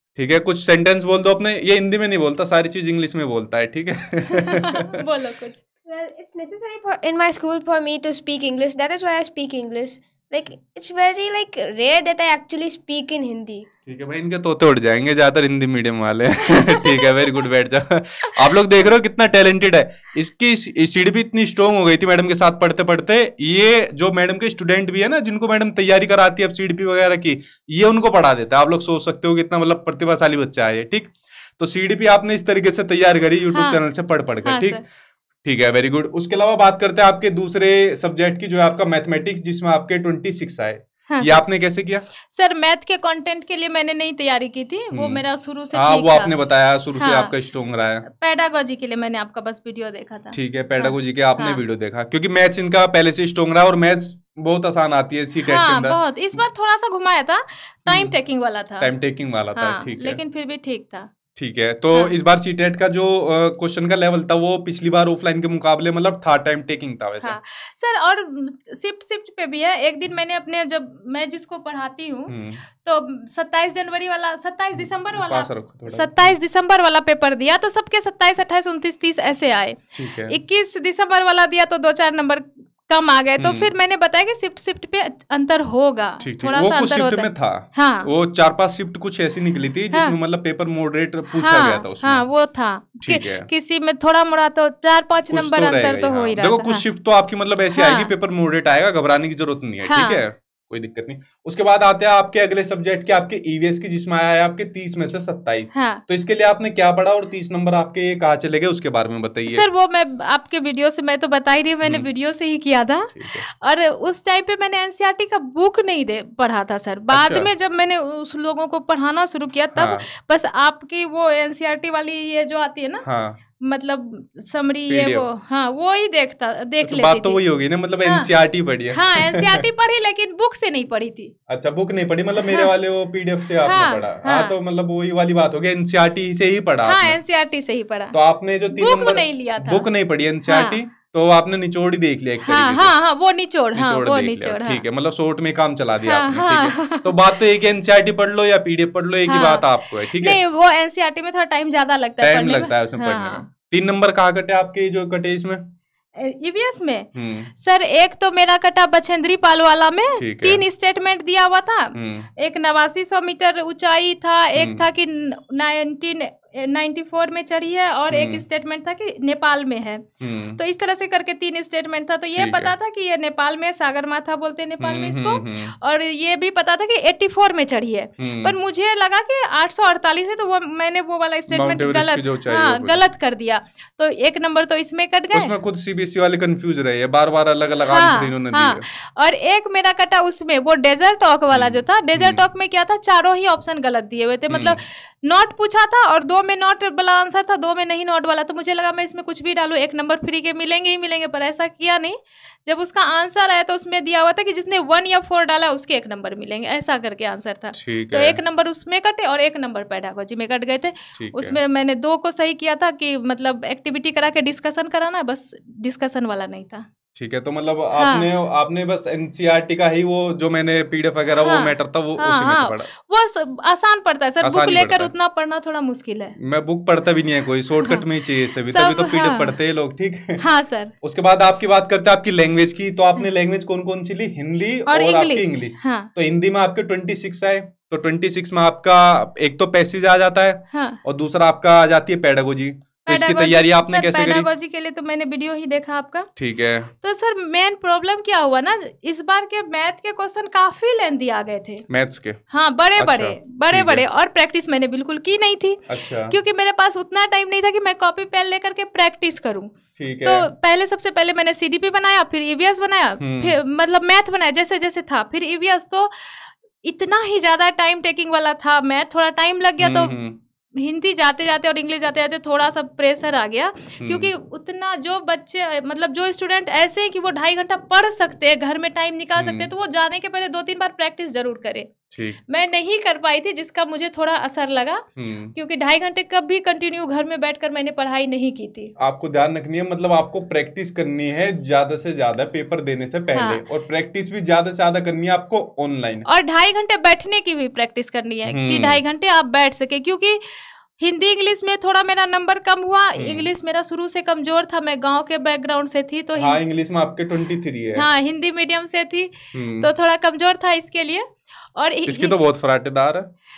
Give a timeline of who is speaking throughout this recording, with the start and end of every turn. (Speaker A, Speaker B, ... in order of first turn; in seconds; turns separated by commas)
Speaker A: 0.1-4.8, Speaker B: 4.3-5.6, Speaker C: 5.8-13.7, Speaker A: 13.8-34.8, Speaker B: 16.6-17.1, Speaker B: 18.5-18.9, Speaker B: 33.5-33.8, Speaker B: 34.4-34.8, Speaker A: 35.4-42.0, Speaker B: 41.1-41.4, Speaker B: 42.2-46.3, Speaker A: 44.9-48.1, Speaker B: 47.0-47.3, Speaker B: 48.0-51.6, Speaker A: 50.3-56.4, Speaker B: 55.4-58.9, Speaker A: 57.9-58.1, Speaker A: 58.8-60.2, Speaker B: 59.5-61.1, Speaker A: 61.4-67.4, Speaker B: 67.2-88.1, Speaker A: 72.3-72.6, Speaker A: 74.7-76.3, Speaker A: 80.0-80.4, Speaker A: 83.4-83.7, Speaker A: 86.2-92.2, Speaker B: 91.3-96.8, Speaker A: 93.0-93.5, Speaker A: 95.3-109.6, Speaker B: 97.7-98.1, Speaker B: 99.8-100.2, Speaker B: 105.7-106.0, Speaker B: 109.5-123.0, Speaker A: 113.1-113.4, Speaker A: 117.1-117.5, Speaker A: 119.7-120.0, Speaker A: 123.0-123.4, Speaker B: 123.6-127.4, Speaker A: 124.9-125.3, Speaker A: 126.8-129.6, Speaker B: 128.0-128.3, Speaker B: 128.9-131.3, Speaker A: 131.5-137.2, Speaker B: 132.4-132.7, Speaker B: 133.6-134.6, Speaker B: 136.8-138.2, Speaker A: 138.1-142.9, Speaker B: 138.7-139.9, Speaker B: 140.5-140.8, Speaker B: 142.4-144.8, Speaker A: 143.7-150.4, Speaker B: 146.0-147.2, Speaker B: 149.3-153.4, Speaker A: 152.2-155.6, Speaker B: 156.2-170.0, Speaker A: 157.2-157.5, Speaker A: 160.2-160.6, Speaker A: 161.9-162.3, Speaker A: 164.5-164.8, Speaker A: 168.1-168.4, Speaker A: 170.2-170.6, Speaker B: 170.6-185.5, Speaker A: 172.3-172.7, Speaker A: 174.8-175.7, Speaker A: 178.2-178.6, Speaker A: 181.5-183.0, Speaker A: 185.3-188.8, Speaker B: 187.9-216.8, Speaker A: 191.5-192.4, Speaker A: 194.5-194.8, Speaker A: 207.7-208.4, Speaker A: 211.2-211.6, Speaker A: 217.2-222.9, Speaker B: 217.9-218.3, Speaker B: 221.4-226.4, Speaker A: 224.4-225.1, Speaker A: 226.4-230.4, Speaker B: 227.8-229.6, Speaker B: 230.4-230.9, Speaker A: 231.0-244.5, Speaker B: 234.9-236.1, Speaker B: 240.7-241.0, Speaker B: 243.0-246.3, Speaker A: 246.4-246.9, Speaker B: 246.9-251.8, Speaker A: 251.9-252.4, Speaker B: 252.5-270.2, Speaker A: 253.0-254.0, Speaker A: 255.9-256.4, Speaker A: 260.0-260.5, Speaker A: 263.2-263.6, Speaker A: 269.8-270.4, Speaker B: 270.8-285.0, Speaker A: 274.0-274.3, Speaker A: 279.4-279.7, Speaker A: 282.1-282.4, Speaker A: 285.2-285.5, Speaker B: 285.5-288.9, Speaker A: 289.0-296.2, Speaker B: 293.3-293.6, Speaker B: 296.2-306.6, Speaker A: 298.4-299.0, Speaker A: 303.1-303.5, Speaker A: 306.3-308.1, Speaker B: 307.9-312.4, Speaker A: 309.5-309.9, Speaker A: 312.1-313.3